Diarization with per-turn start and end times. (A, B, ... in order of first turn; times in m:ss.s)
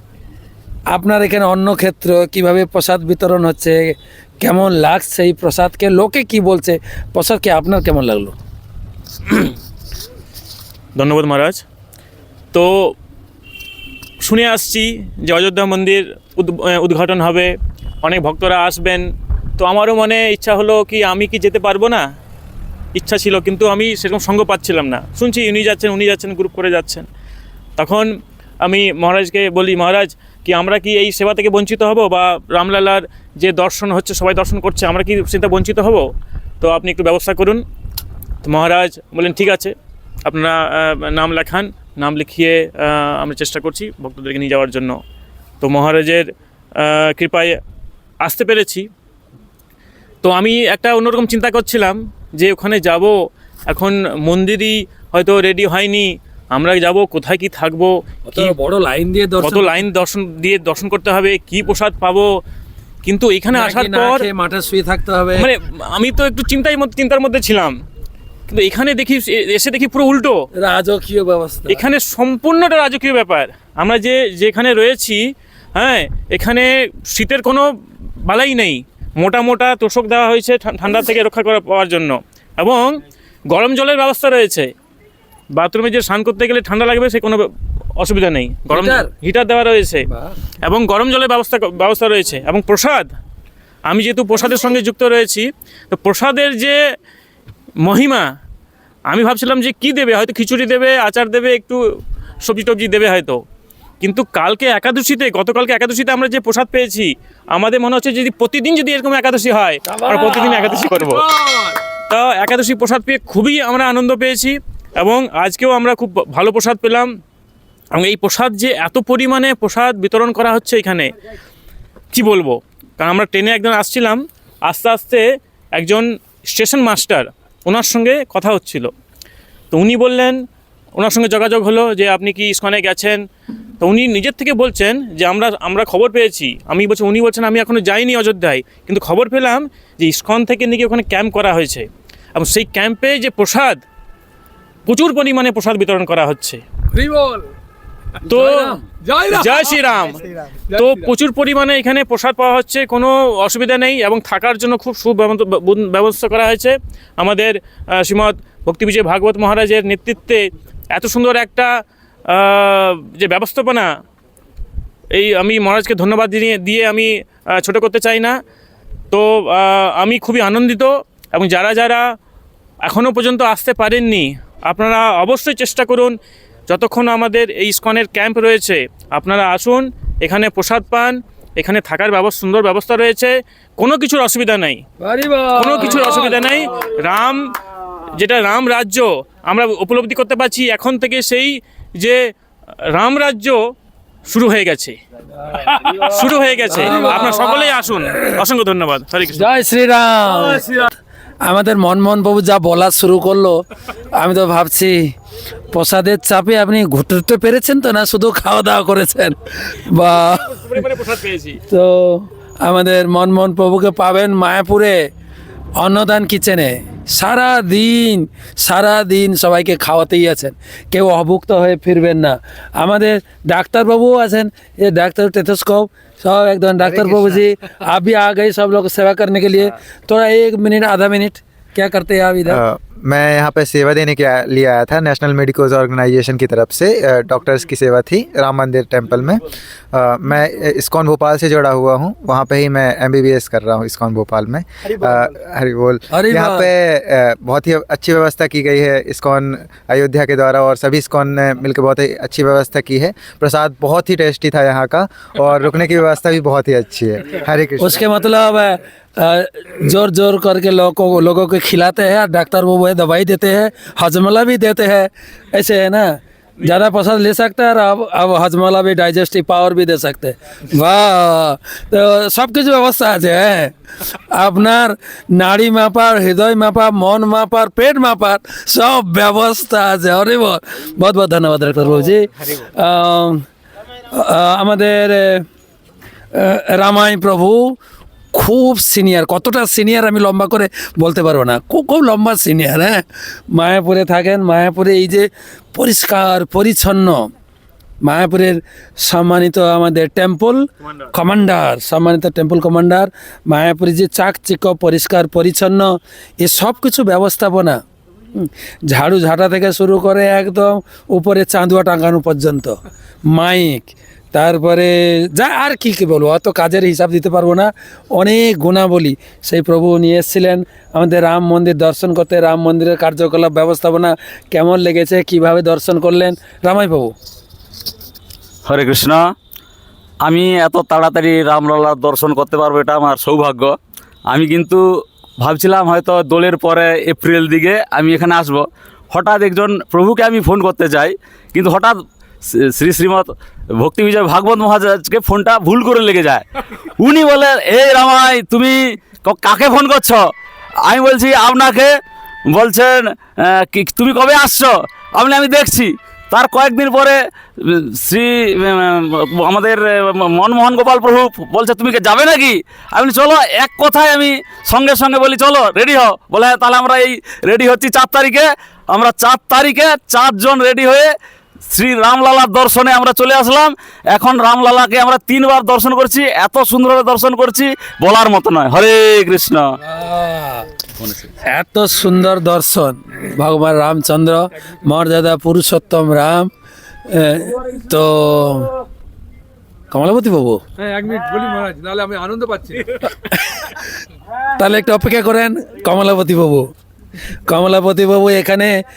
0:00.9-0:08.4 A
0:11.0-0:11.6 B
0:14.2-0:17.5 B
0:18.0-0:19.1 B
0:19.6-0:22.0 B
0:23.0-0:27.0 B
0:27.8-0:28.1 B
0:28.6-0:36.0 B
0:36.6-0:37.6 B
0:38.4-0:39.7 B
0:40.2-0:45.0 B
0:45.6-0:46.2 B
0:46.8-0:47.6 B
0:48.2-0:48.9 B
0:50.2-0:53.1 B
0:53.7-0:58.5 B
0:58.3-0:59.8 A
0:59.4-1:02.3 B
1:03.0-1:04.2 B
1:03.5-1:05.5 A
1:05.4-1:07.8 B
1:08.5-1:10.4 B
1:10.6-1:11.8 A
1:11.7-1:15.2 B
1:15.7-1:17.7 B
1:18.2-1:23.0 B
1:23.5-1:24.7 B
1:25.6-1:27.4 B
1:28.0-1:30.0 B
1:28.7-1:29.1 A
1:30.6-1:33.1 B
1:33.9-1:36.8 B
1:37.8-1:38.3 B
1:39.1-1:41.8 B
1:42.4-1:43.4 B
1:44.0-1:51.2 B
1:49.9-1:50.9 A
1:52.1-1:57.1 B
1:58.0-2:01.1 B
2:02.1-2:05.2 B
2:05.8-2:08.9 B
2:09.7-2:10.4 B
2:11.0-2:13.2 B
2:13.8-2:23.8 B
2:24.9-2:26.6 B
2:26.9-2:27.4 C
2:28.2-2:28.8 A
2:28.2-2:30.2 B
2:29.0-2:29.8 C
2:30.7-2:31.0 C
2:30.7-2:41.7 B
2:42.3-2:43.9 B
2:45.1-2:48.4 B
2:49.1-2:52.0 B
2:52.8-2:56.2 B
2:56.7-3:04.8 B
3:05.0-3:06.4 A
3:05.5-3:07.4 B
3:08.1-3:12.2 B
3:12.9-3:13.6 B
3:14.3-3:15.0 B
3:15.7-3:19.4 B
3:16.7-3:17.7 A
3:19.3-3:20.8 A
3:21.4-3:23.6 A
3:24.1-3:25.1 A
3:25.7-3:30.5 A
3:30.2-3:31.6 B
3:31.7-3:35.0 A
3:35.8-3:52.6 A
3:46.8-3:47.4 D
3:52.5-4:18.0 D
4:06.1-4:06.7 A
4:17.8-4:43.4 A
4:44.1-4:45.4 A
4:46.3-4:47.8 A
4:48.3-4:57.3 A
4:58.0-5:07.8 A
5:08.4-5:27.1 A
5:28.6-5:29.2 E
5:30.2-5:33.7 E
5:34.3-5:34.8 E
5:35.4-5:42.0 E
5:42.8-5:46.4 E
5:47.0-5:50.2 E
5:50.8-5:51.9 E
5:52.5-6:11.1 E
6:11.7-6:19.7 E
6:19.8-6:20.7 A
6:21.4-6:26.5 A
6:27.1-6:28.7 A
6:29.9-6:30.6 A
6:30.8-6:32.9 C
6:34.5-6:36.7 A
6:37.5-6:38.8 A